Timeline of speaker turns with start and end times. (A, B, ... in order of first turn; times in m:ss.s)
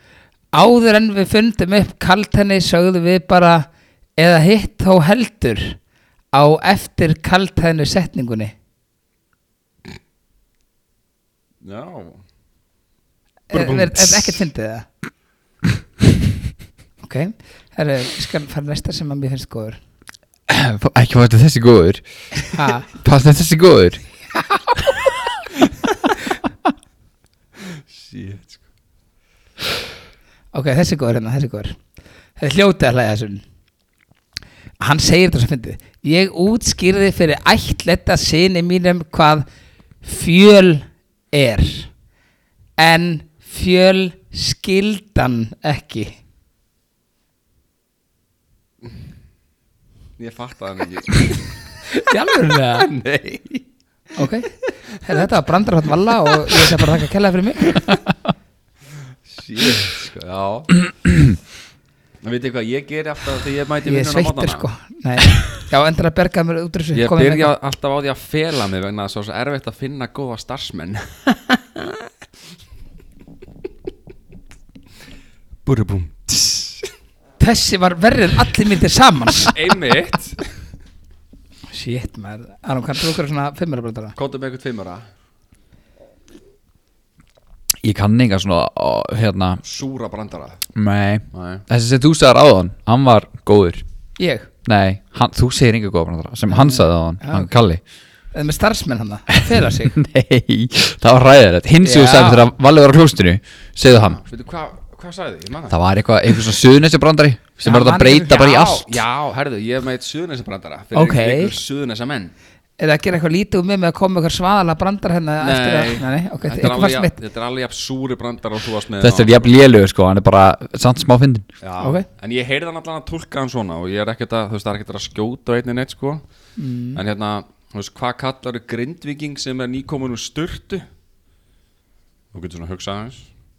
0:00.5-0:05.8 A
0:06.3-0:08.5 A
0:11.6-0:12.2 B
0:13.5-0:14.9 A
0:13.5-0:14.4 C
0:17.0-0:19.8 A
0:20.5-0:24.1 C
0:22.5-0:22.9 A
0:24.5-0:24.9 A
0:27.8-0:28.6 B
0:30.5-0:31.8 A
0:32.4-0:33.4 A
0:34.8-0:39.5 A
0:40.0-0:41.9 A
0:42.8-0:46.2 A
0:50.2-0:51.6 B
0:52.0-0:52.9 A
0:52.8-0:53.6 B
0:54.2-0:57.8 A
0:59.3-1:00.8 B
1:02.2-1:04.6 B
1:03.8-1:07.5 A
1:06.9-1:12.1 B
1:15.6-1:16.9 B
1:17.4-1:19.5 A
1:19.4-1:20.5 B
1:21.7-1:24.2 A
1:24.2-1:25.1 B
1:27.8-1:29.6 C
1:29.6-1:30.7 B
1:30.8-1:33.8 C
1:31.3-1:31.6 B
1:34.2-1:34.5 A
1:34.6-1:37.8 C
1:36.5-1:37.5 A
1:38.3-1:40.0 A
1:39.6-1:44.2 C
1:41.8-1:42.5 A
1:43.9-1:45.8 B
1:45.7-1:49.0 C
1:47.6-1:48.6 A
1:48.2-1:52.3 B
1:50.9-1:51.6 A
1:52.8-1:57.2 A
1:55.4-1:59.5 B
1:59.0-2:01.5 C
2:01.6-2:06.2 B
2:01.8-2:02.1 A
2:06.6-2:07.0 A
2:06.9-2:10.9 B
2:12.3-2:13.3 B